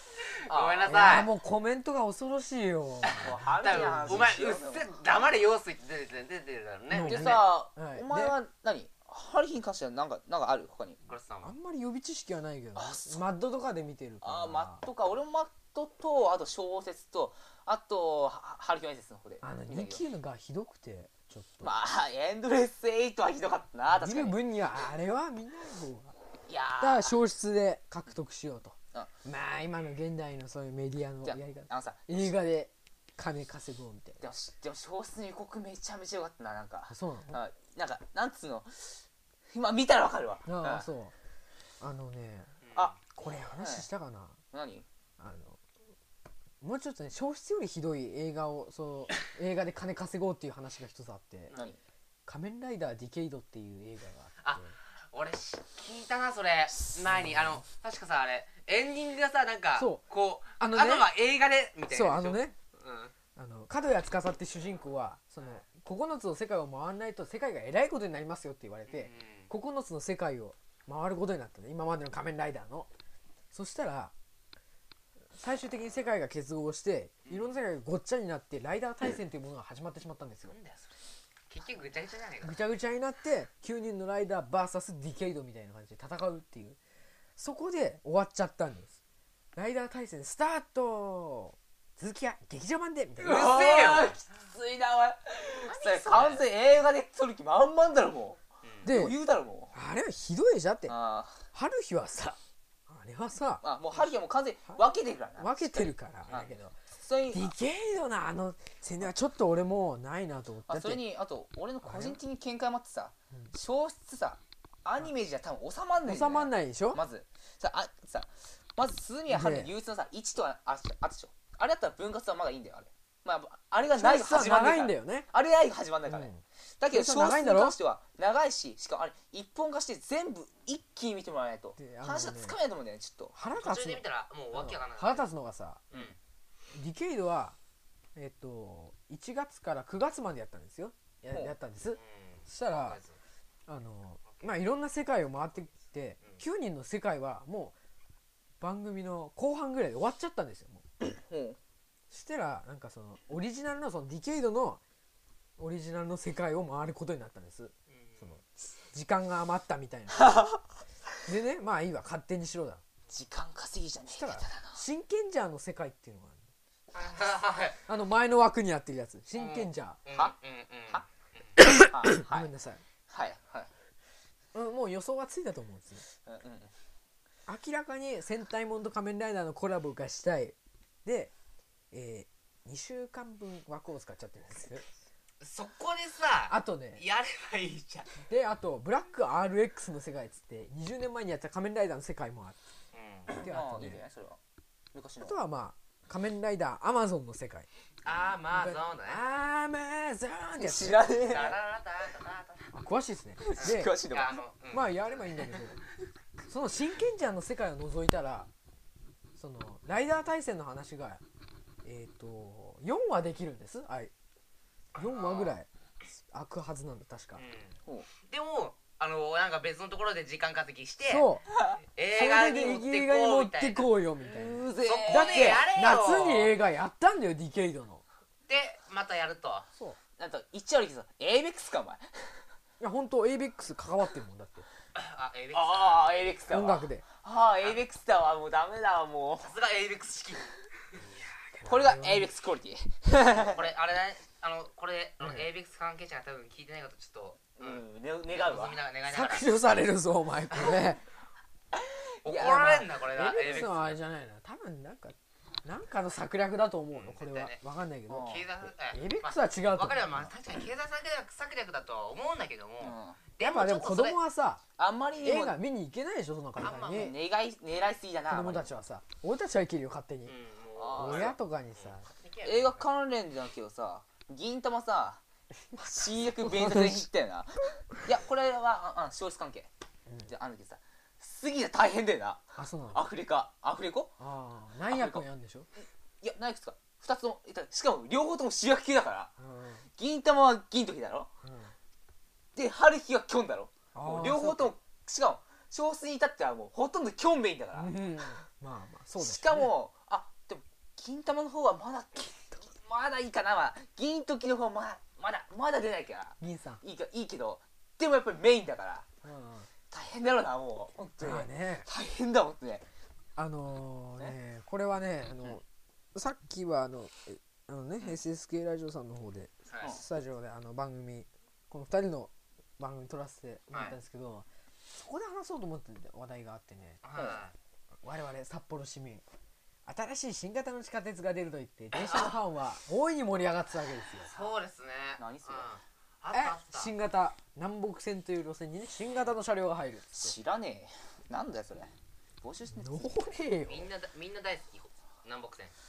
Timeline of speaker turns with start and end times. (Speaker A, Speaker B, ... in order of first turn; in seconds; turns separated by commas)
Speaker A: 0.3-1.3, Speaker B: 0.5-1.3, Speaker C: 0.9-4.3, Speaker A: 3.0-7.4, Speaker B: 3.1-5.0, Speaker C: 6.9-8.4, Speaker B: 7.0-11.0, Speaker A: 11.1-11.5, Speaker C: 11.4-14.8, Speaker B: 12.8-13.2, Speaker B: 14.2-20.0, Speaker C: 19.4-21.7, Speaker B: 21.6-24.4, Speaker C: 23.9-26.1, Speaker B: 26.5-27.2, Speaker C: 26.8-34.2, Speaker B: 31.2-32.3, Speaker B: 34.2-40.9, Speaker C: 36.9-37.4, Speaker C: 40.5-41.1, Speaker C: 41.8-42.6, Speaker A: 42.6-43.0, Speaker B: 42.8-43.9, Speaker C: 43.1-44.4, Speaker B: 44.5-44.9, Speaker C: 45.2-45.6, Speaker C: 46.6-51.5, Speaker B: 51.5-51.8, Speaker C: 52.3-54.7, Speaker A: 54.4-63.1, Speaker C: 57.0-57.6, Speaker C: 59.8-60.0, Speaker C: 60.6-61.1, Speaker C: 61.9-62.6, Speaker C: 63.4-72.9, Speaker A: 68.9-69.5, Speaker C: 73.5-74.1, Speaker C: 75.4-80.6, Speaker A: 77.3-77.6, Speaker A: 80.5-80.9, Speaker A: 81.5-82.6, Speaker C: 82.4-86.8, Speaker C: 87.4-89.0, Speaker C: 89.5-93.6, Speaker B: 93.2-99.7, Speaker A: 93.2-94.2, Speaker A: 95.7-96.5, Speaker C: 98.8-99.2, Speaker C: 99.7-101.0, Speaker B: 100.9-101.5, Speaker C: 101.5-103.6, Speaker B: 103.6-107.5, Speaker C: 105.4-106.8, Speaker C: 107.3-111.0, Speaker B: 110.7-133.4, Speaker C: 111.8-112.2, Speaker C: 116.0-117.0, Speaker C: 119.3-119.7, Speaker C: 123.9-125.3, Speaker C: 126.1-127.8, Speaker C: 131.8-132.6, Speaker C: 133.3-135.9, Speaker A: 133.4-135.3, Speaker C: 136.7-137.6, Speaker C: 138.2-143.0, Speaker A: 142.0-143.2, Speaker C: 143.7-147.8, Speaker C: 148.6-150.9, Speaker B: 151.0-151.6, Speaker C: 152.1-154.8, Speaker C: 155.6-160.5, Speaker A: 157.9-158.4, Speaker C: 161.3-162.8, Speaker B: 163.1-164.8, Speaker C: 164.1-166.4, Speaker A: 166.9-167.8, Speaker C: 167.9-170.0, Speaker A: 169.3-171.6, Speaker C: 171.6-172.8, Speaker B: 171.6-172.5, Speaker B: 173.1-173.7, Speaker C: 174.5-176.0, Speaker B: 176.3-176.7, Speaker C: 177.5-181.3, Speaker C: 181.9-184.9, Speaker A: 185.4-188.1, Speaker C: 186.5-187.0, Speaker C: 188.3-192.6, Speaker A: 192.9-193.4, Speaker B: 193.3-194.4, Speaker C: 193.3-194.0, Speaker B: 194.9-195.4, Speaker C: 195.2-197.7, Speaker A: 198.0-199.2, Speaker C: 198.5-201.4, Speaker B: 200.6-201.6, Speaker A: 201.3-202.7, Speaker C: 202.7-204.0, Speaker B: 203.5-204.4, Speaker A: 203.6-205.6, Speaker C: 204.7-205.8, Speaker C: 206.5-208.5, Speaker C: 209.4-211.2, Speaker C: 211.8-214.1, Speaker C: 215.0-215.7, Speaker A: 215.0-215.6, Speaker C: 216.3-217.4, Speaker A: 217.4-221.3, Speaker C: 221.1-221.5, Speaker A: 221.9-223.9, Speaker C: 222.1-228.0, Speaker B: 224.2-225.7, Speaker A: 224.8-226.6, Speaker A: 228.5-229.7, Speaker B: 230.2-232.4, Speaker C: 232.8-234.7, Speaker A: 234.9-236.3, Speaker B: 235.5-239.6, Speaker C: 236.5-237.1, Speaker A: 237.6-237.8, Speaker A: 239.4-240.5, Speaker C: 241.0-242.3, Speaker B: 241.7-243.7, Speaker A: 243.3-249.5, Speaker C: 245.2-245.5, Speaker B: 247.6-248.8, Speaker C: 249.1-251.0, Speaker B: 251.7-253.7, Speaker A: 252.2-254.0, Speaker C: 253.1-260.3, Speaker A: 256.9-257.6, Speaker B: 258.1-258.5, Speaker A: 258.1-264.2, Speaker B: 262.8-263.2, Speaker C: 263.4-264.6, Speaker B: 264.8-265.6, Speaker C: 265.2-267.2, Speaker A: 266.6-267.1, Speaker B: 266.6-268.7, Speaker C: 268.3-270.4, Speaker A: 270.3-272.9, Speaker B: 270.8-271.4, Speaker C: 270.9-272.1, Speaker B: 272.4-275.2, Speaker C: 275.7-277.1, Speaker B: 275.9-279.7, Speaker B: 280.3-284.1, Speaker C: 282.6-283.1, Speaker C: 284.2-285.7, Speaker B: 284.9-285.2, Speaker B: 286.2-289.3, Speaker C: 289.4-289.9, Speaker B: 290.0-291.3, Speaker C: 291.4-291.7, Speaker B: 292.6-298.0, Speaker C: 293.9-294.7, Speaker C: 297.7-299.7, Speaker B: 299.2-309.1, Speaker C: 306.4-306.8, Speaker C: 309.2-309.7, Speaker B: 309.9-312.9, Speaker C: 311.2-311.9, Speaker C: 313.4-327.0, Speaker A: 319.7-319.9, Speaker A: 327.0-327.6, Speaker C: 328.0-329.2, Speaker C: 329.9-334.3, Speaker A: 334.3-336.9, Speaker B: 335.2-335.7, Speaker C: 336.3-340.4, Speaker B: 340.1-343.4, Speaker C: 342.7-343.9, Speaker A: 343.6-345.7